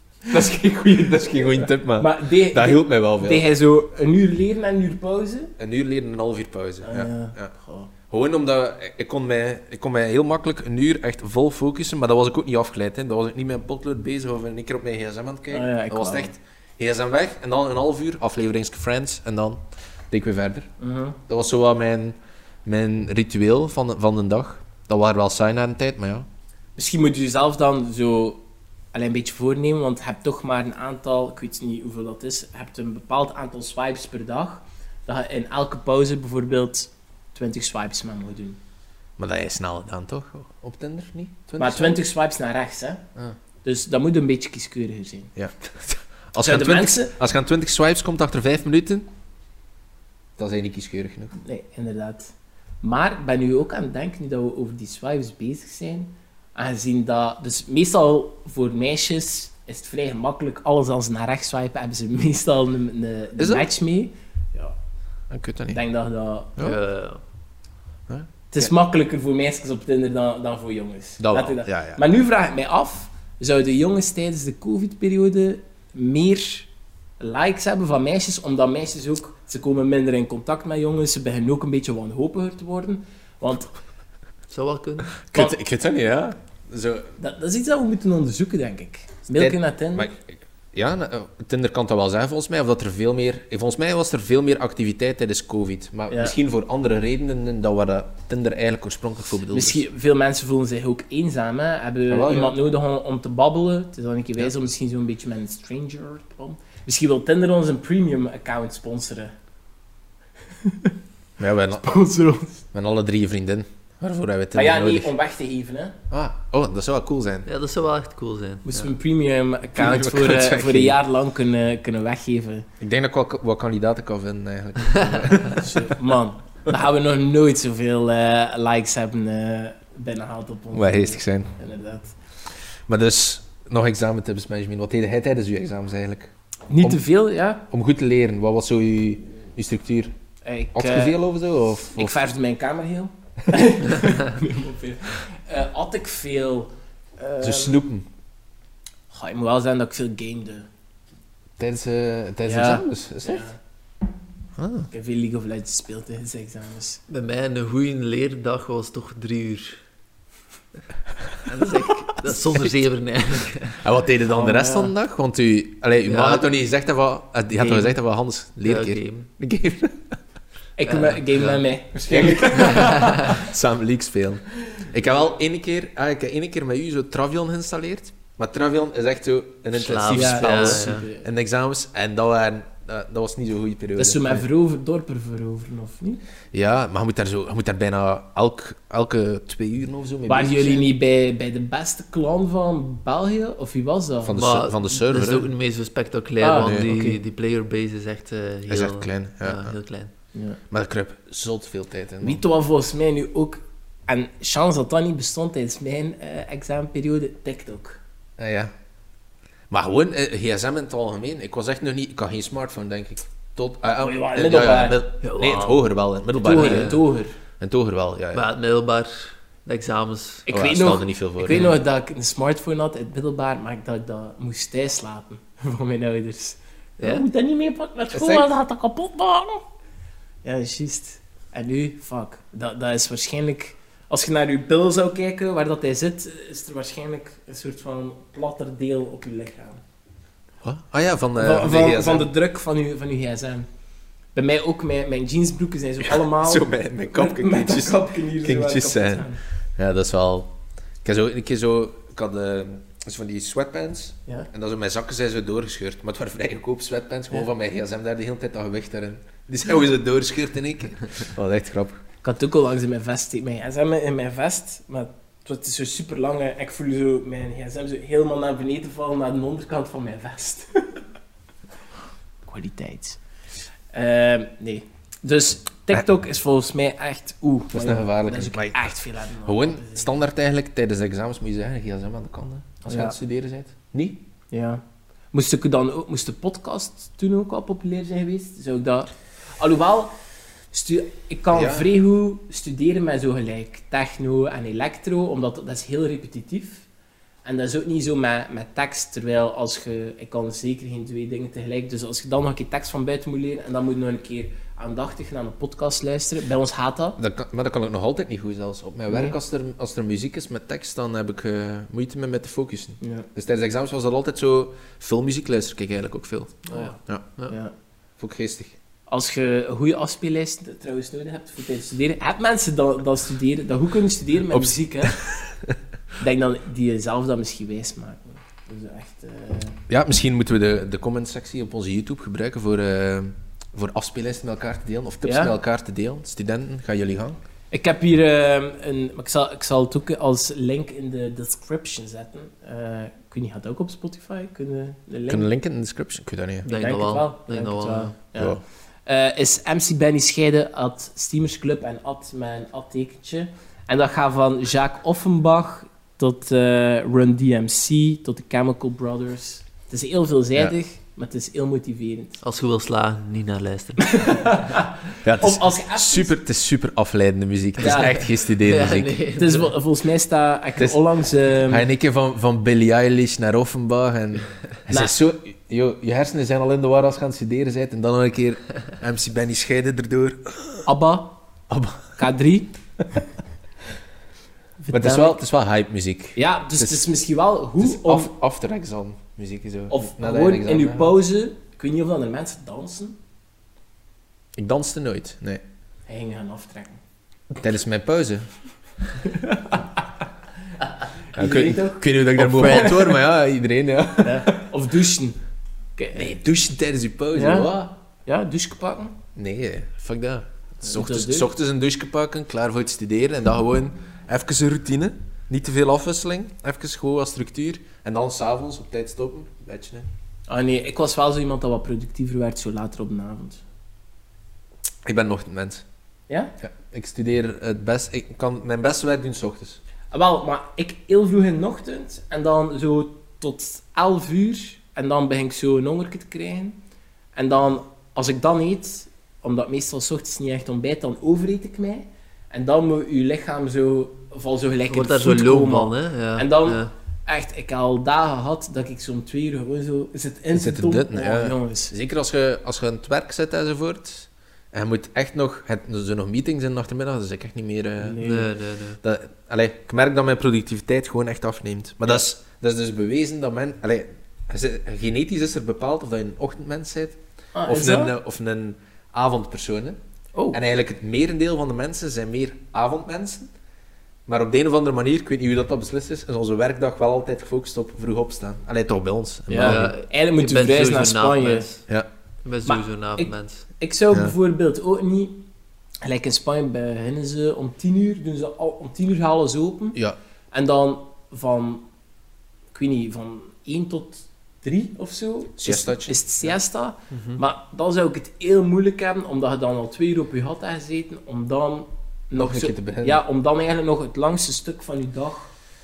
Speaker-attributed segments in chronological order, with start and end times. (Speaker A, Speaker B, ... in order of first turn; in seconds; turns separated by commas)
Speaker A: 0.3-3.5, Speaker B: 2.0-5.5, Speaker A: 5.6-7.5, Speaker B: 6.8-7.9, Speaker A: 8.1-20.7, Speaker B: 15.5-16.3, Speaker B: 20.8-21.2, Speaker A: 21.3-26.3, Speaker B: 26.8-28.4, Speaker B: 28.9-38.6, Speaker A: 39.2-42.0, Speaker B: 41.6-43.0, Speaker B: 43.6-45.3, Speaker A: 45.4-49.1, Speaker B: 46.4-47.1, Speaker A: 50.4-51.3, Speaker B: 51.4-64.8, Speaker A: 63.4-63.7, Speaker A: 65.3-65.8, Speaker B: 65.7-66.6, Speaker C: 66.6-67.2, Speaker A: 68.1-68.7, Speaker B: 68.5-76.7, Speaker A: 71.2-72.0, Speaker B: 77.2-83.7, Speaker C: 84.5-85.1, Speaker A: 85.2-87.1, Speaker B: 87.2-90.1, Speaker A: 89.3-99.8, Speaker B: 96.1-96.3, Speaker B: 99.5-109.3, Speaker A: 102.1-102.6, Speaker B: 110.6-110.9, Speaker A: 111.4-112.0, Speaker B: 111.8-112.6, Speaker A: 112.7-115.1, Speaker B: 114.5-116.0, Speaker A: 116.1-117.5, Speaker C: 117.5-118.9, Speaker B: 118.6-122.7, Speaker A: 119.7-121.0, Speaker A: 122.8-126.0, Speaker B: 125.5-132.1, Speaker A: 130.7-131.5, Speaker A: 132.9-137.0, Speaker B: 136.7-137.7, Speaker A: 137.7-140.1, Speaker B: 140.4-141.2, Speaker A: 140.7-142.2, Speaker B: 141.9-147.8, Speaker A: 147.4-148.1, Speaker B: 149.1-150.7, Speaker A: 151.6-153.5, Speaker B: 152.4-153.6, Speaker A: 154.6-154.9, Speaker B: 154.9-157.0, Speaker C: 157.1-159.8, Speaker C: 161.4-163.8, Speaker A: 163.8-170.0, Speaker B: 164.3-164.9, Speaker C: 166.1-166.5, Speaker C: 168.6-169.3, Speaker B: 170.8-173.3, Speaker C: 170.9-171.6, Speaker A: 172.1-184.4, Speaker C: 172.6-173.4, Speaker C: 179.7-181.1, Speaker B: 180.1-181.2, Speaker B: 184.0-186.2, Speaker A: 186.5-190.9, Speaker B: 190.3-194.4, Speaker A: 194.2-195.5, Speaker C: 194.3-200.1, Speaker B: 196.4-197.2, Speaker A: 196.6-196.9, Speaker A: 198.7-199.7, Speaker A: 200.7-202.4, Speaker B: 202.2-208.0, Speaker A: 208.4-208.7, Speaker A: 209.7-217.0, Speaker B: 214.0-215.0, Speaker C: 215.2-215.9, Speaker B: 216.4-217.3, Speaker C: 216.5-217.0, Speaker A: 217.6-218.4, Speaker C: 218.3-220.5, Speaker B: 220.5-229.6, Speaker A: 220.5-221.7, Speaker C: 227.0-227.2, Speaker A: 228.1-228.5, Speaker B: 230.4-239.8, Speaker A: 240.6-242.3, Speaker B: 241.4-243.7, Speaker B: 244.3-249.4, Speaker A: 246.0-250.5, Speaker A: 251.0-262.0, Speaker B: 262.2-271.0, Speaker B: 272.4-273.2, Speaker B: 273.9-280.1, Speaker A: 277.7-284.2, Speaker B: 282.8-283.1, Speaker B: 284.5-290.1, Speaker B: 290.7-296.9, Speaker A: 291.5-291.9, Speaker B: 297.4-307.2, Speaker A: 307.2-317.2, Speaker B: 309.1-309.4, Speaker B: 313.0-313.3, Speaker B: 316.7-317.0, Speaker C: 316.7-317.5, Speaker B: 317.5-317.7, Speaker A: 318.2-318.8, Speaker B: 319.1-325.2, Speaker A: 324.5-325.8, Speaker B: 326.2-329.8, Speaker A: 329.9-337.4, Speaker B: 335.2-335.5, Speaker B: 337.7-345.5, Speaker A: 345.3-346.6, Speaker C: 346.6-348.1, Speaker B: 346.7-362.4, Speaker A: 348.4-348.6, Speaker C: 362.4-364.7, Speaker B: 364.0-366.3, Speaker A: 365.2-369.2, Speaker B: 367.8-368.2, Speaker C: 368.6-369.7, Speaker B: 369.3-371.9, Speaker A: 371.6-380.9, Speaker B: 374.9-375.1, Speaker B: 380.8-381.4, Speaker A: 381.7-382.2, Speaker B: 382.2-382.7, Speaker B: 384.8-385.4, Speaker A: 384.9-387.0, Speaker B: 386.4-388.3, Speaker A: 387.8-391.1, Speaker B: 389.9-393.2, Speaker A: 394.6-395.6, Speaker B: 396.1-397.0, Speaker A: 397.6-398.5, Speaker B: 399.2-399.8, Speaker B: 401.3-402.9, Speaker A: 401.3-404.6, Speaker C: 402.4-403.1, Speaker B: 404.2-405.4, Speaker B: 406.0-406.4, Speaker A: 406.1-407.9, Speaker B: 407.3-409.1, Speaker A: 409.4-420.1, Speaker B: 410.8-411.5, Speaker B: 420.5-423.6, Speaker A: 425.0-425.8, Speaker A: 426.6-429.8, Speaker B: 430.1-436.8, Speaker B: 437.3-451.9, Speaker C: 444.9-446.9, Speaker A: 450.5-458.2, Speaker B: 458.0-458.5, Speaker C: 458.2-459.0, Speaker A: 459.0-470.0, Speaker B: 467.5-468.1, Speaker B: 470.3-470.6, Speaker A: 470.5-473.5, Speaker A: 474.3-479.9, Speaker B: 479.5-481.7, Speaker C: 479.6-481.8, Speaker C: 482.4-483.6, Speaker B: 482.6-485.4, Speaker B: 486.0-490.0, Speaker B: 490.5-491.9, Speaker B: 492.7-505.5, Speaker A: 495.6-496.2, Speaker C: 497.1-497.4, Speaker A: 502.4-503.2